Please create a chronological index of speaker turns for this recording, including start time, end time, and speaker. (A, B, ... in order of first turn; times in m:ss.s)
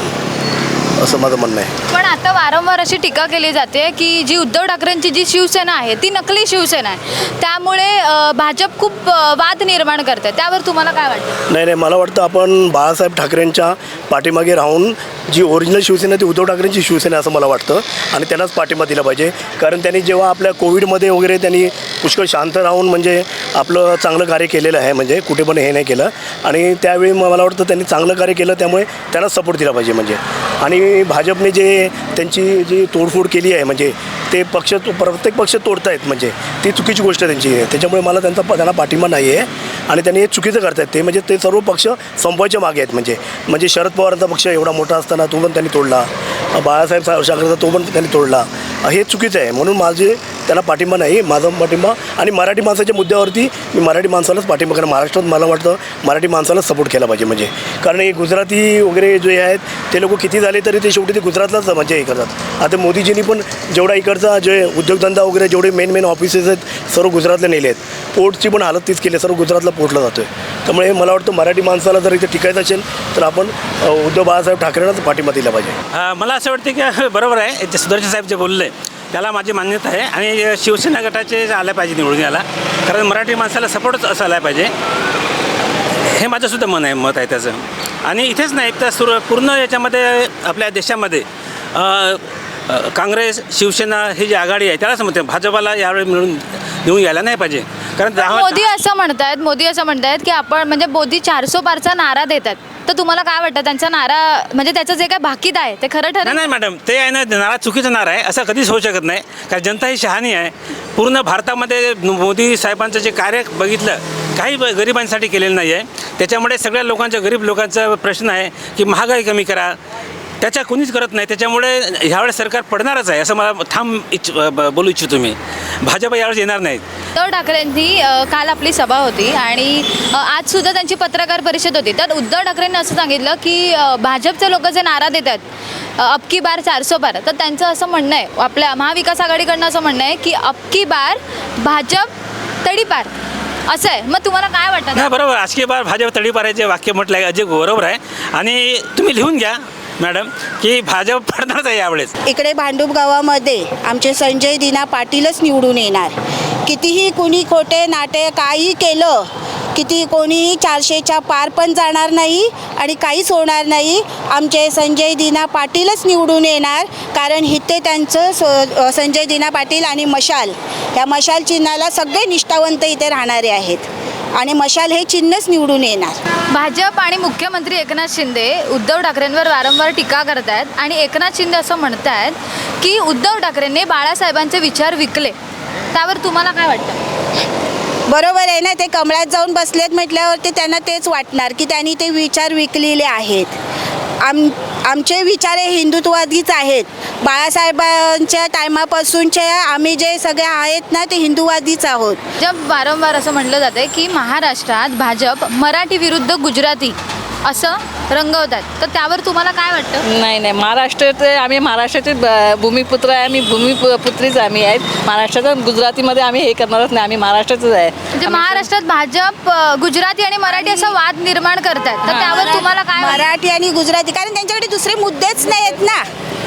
0:01.0-0:01.7 A
0:01.9-0:11.4 B
0:11.5-1:15.8 A
1:15.9-1:24.7 C
1:26.1-1:38.6 C
1:38.2-1:46.4 B
1:46.2-1:59.8 C
2:00.4-2:06.8 C
2:07.2-2:15.4 B
2:16.0-2:22.1 B
2:22.6-2:23.1 B
2:23.7-2:25.1 B
2:25.0-2:32.1 C
2:32.2-2:56.2 D
2:56.5-3:05.3 B
3:05.9-3:07.0 B
3:08.1-3:13.5 D
3:14.2-3:22.2 D
3:22.4-3:30.0 B
3:30.0-3:38.6 E
3:38.1-3:43.2 B
3:42.1-3:42.6 E
3:42.9-3:46.0 D